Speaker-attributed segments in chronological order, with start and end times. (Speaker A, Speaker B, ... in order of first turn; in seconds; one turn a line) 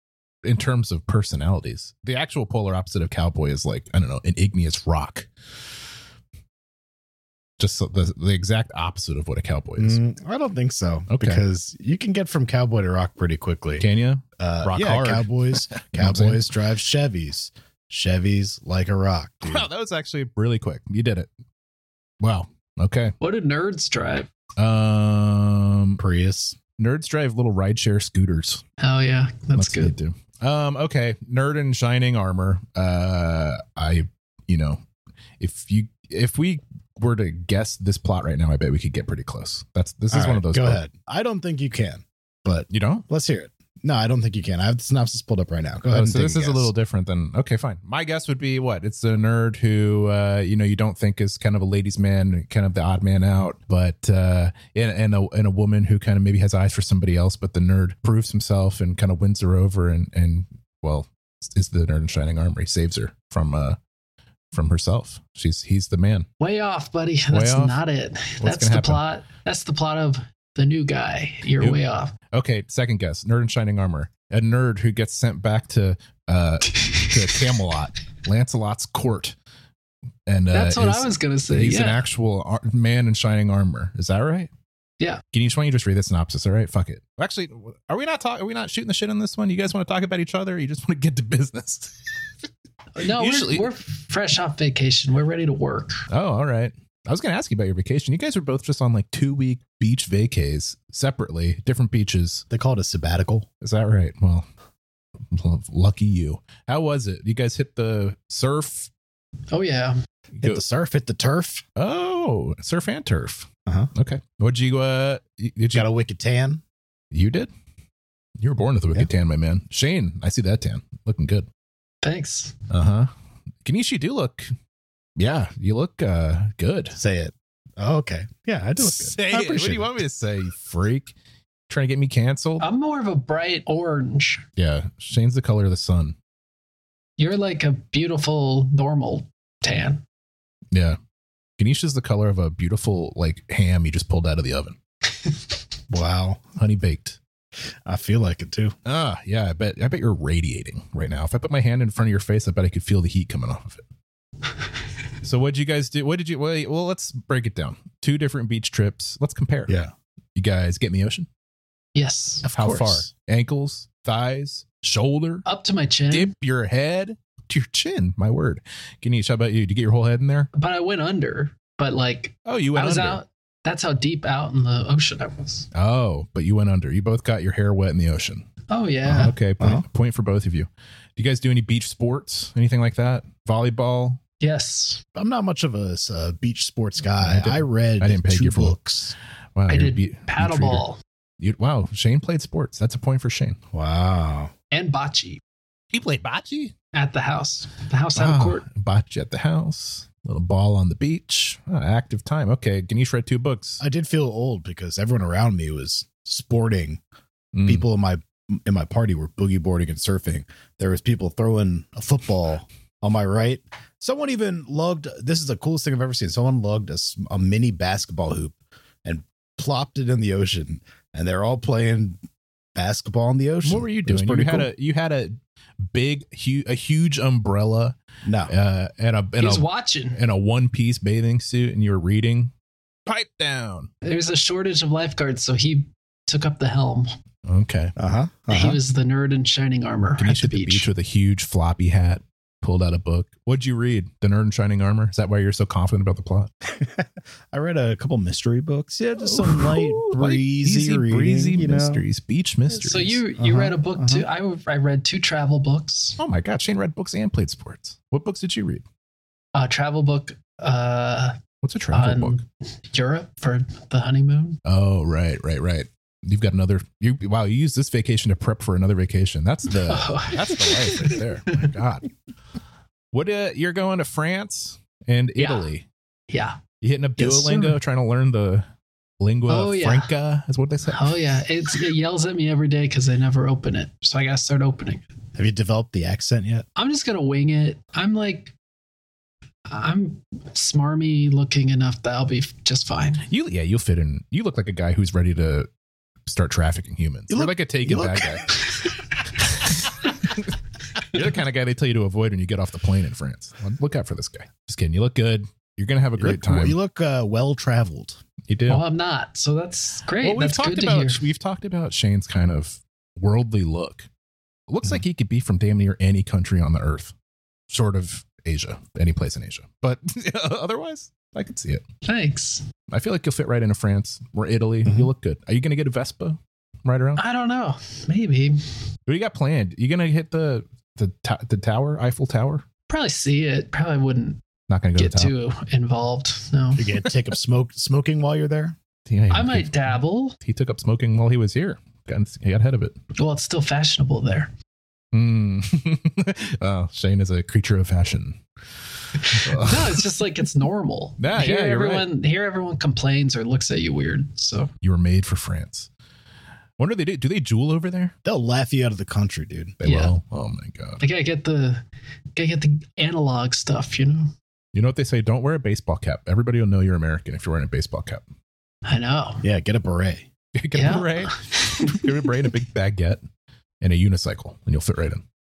Speaker A: 0.4-5.3
Speaker A: 7.6-10.0
Speaker B: 9.8-13.8
Speaker A: 11.1-11.4
Speaker A: 13.8-16.4
Speaker B: 14.4-19.6
Speaker A: 19.4-21.3
Speaker A: 22.2-23.1
Speaker C: 23.2-24.3
Speaker A: 24.6-26.0
Speaker B: 26.0-26.6
Speaker A: 26.8-28.6
Speaker C: 28.8-29.9
Speaker A: 29.5-34.8
Speaker A: 35.4-40.8
Speaker B: 40.1-46.7
Speaker A: 42.7-43.0
Speaker A: 45.9-63.8
Speaker A: 64.5-66.3
Speaker C: 66.4-72.1
Speaker A: 67.3-67.8
Speaker A: 68.4-69.0
Speaker A: 71.6-79.3
Speaker A: 80.3-84.5
Speaker C: 80.5-82.0
Speaker A: 85.3-92.0
Speaker C: 93.0-96.0
Speaker A: 93.1-93.7
Speaker A: 96.1-102.4
Speaker B: 102.5-103.5
Speaker A: 103.6-104.5
Speaker A: 105.3-108.9
Speaker C: 109.5-110.0
Speaker B: 110.4-111.6
Speaker A: 111.8-115.9
Speaker B: 115.7-116.6
Speaker A: 117.1-117.5
Speaker A: 118.4-121.5
Speaker C: 122.0-122.5
Speaker A: 122.7-123.1
Speaker A: 123.6-124.5
Speaker A: 125.2-127.0
Speaker B: 126.9-129.9
Speaker A: 128.8-131.1
Speaker A: 131.7-132.7
Speaker C: 132.6-134.4
Speaker A: 134.6-136.2
Speaker C: 137.2-140.0
Speaker A: 140.7-141.0
Speaker A: 141.6-144.8
Speaker B: 145.9-146.4
Speaker A: 146.6-147.2
Speaker B: 147.8-148.7
Speaker A: 148.8-153.8
Speaker A: 155.2-159.7
Speaker B: 159.7-159.9
Speaker A: 160.3-161.3
Speaker C: 161.9-162.4
Speaker B: 162.4-163.1
Speaker A: 162.4-165.4
Speaker C: 165.4-166.3
Speaker A: 166.1-170.5
Speaker C: 170.5-175.7
Speaker A: 172.4-173.2
Speaker A: 175.7-178.5
Speaker C: 178.7-179.3
Speaker A: 179.0-184.2
Speaker B: 179.6-179.8
Speaker C: 184.4-185.0
Speaker B: 185.1-189.1
Speaker A: 187.2-188.8
Speaker A: 189.6-190.8
Speaker C: 189.7-191.0
Speaker A: 191.4-193.6
Speaker B: 193.7-194.5
Speaker C: 194.7-195.4
Speaker A: 195.9-196.7
Speaker C: 196.9-198.6
Speaker A: 198.2-203.8
Speaker B: 203.8-207.0
Speaker A: 207.5-207.8
Speaker B: 207.7-222.2
Speaker B: 222.7-224.7
Speaker A: 223.6-232.5
Speaker B: 228.2-228.5
Speaker C: 229.4-230.2
Speaker A: 233.1-233.9
Speaker C: 234.0-237.1
Speaker A: 237.4-237.9
Speaker B: 238.0-238.8
Speaker C: 238.5-240.9
Speaker A: 240.2-246.5
Speaker B: 246.6-252.0
Speaker A: 249.2-253.2
Speaker C: 252.7-256.2
Speaker B: 253.4-254.2
Speaker A: 256.2-258.8
Speaker C: 259.5-261.4
Speaker A: 261.6-262.4
Speaker C: 261.9-264.6
Speaker A: 264.6-272.1
Speaker C: 269.7-271.2
Speaker A: 273.1-275.9
Speaker C: 275.4-275.7
Speaker C: 276.3-276.6
Speaker A: 276.8-278.6
Speaker C: 277.2-277.7
Speaker A: 279.2-281.1
Speaker C: 279.5-280.1
Speaker C: 280.9-285.0
Speaker B: 285.4-286.6
Speaker C: 286.8-288.5
Speaker C: 289.7-293.2
Speaker A: 293.3-295.7
Speaker A: 296.2-298.4
Speaker B: 297.3-298.4
Speaker A: 300.4-306.8
Speaker B: 306.2-308.2
Speaker A: 308.5-308.8
Speaker C: 308.7-311.2
Speaker A: 310.2-314.1
Speaker A: 314.7-317.1
Speaker A: 317.7-321.8
Speaker C: 322.0-322.6
Speaker A: 322.9-327.2
Speaker C: 327.2-328.6
Speaker A: 329.1-332.6
Speaker C: 332.9-334.4
Speaker A: 334.7-335.3
Speaker C: 335.0-336.9
Speaker B: 336.8-338.8
Speaker A: 339.1-343.0
Speaker C: 339.3-340.4
Speaker C: 343.1-344.5
Speaker A: 345.1-348.4
Speaker C: 349.2-354.7
Speaker A: 349.3-350.0
Speaker A: 351.2-352.1
Speaker A: 354.8-355.9
Speaker A: 356.8-358.1
Speaker B: 358.2-359.8
Speaker A: 359.8-361.0
Speaker C: 359.8-360.1
Speaker C: 361.0-361.8
Speaker C: 362.4-364.3
Speaker A: 364.7-368.2
Speaker C: 368.8-369.4
Speaker B: 369.4-370.3
Speaker A: 370.5-373.2
Speaker C: 370.7-372.2
Speaker A: 373.8-375.2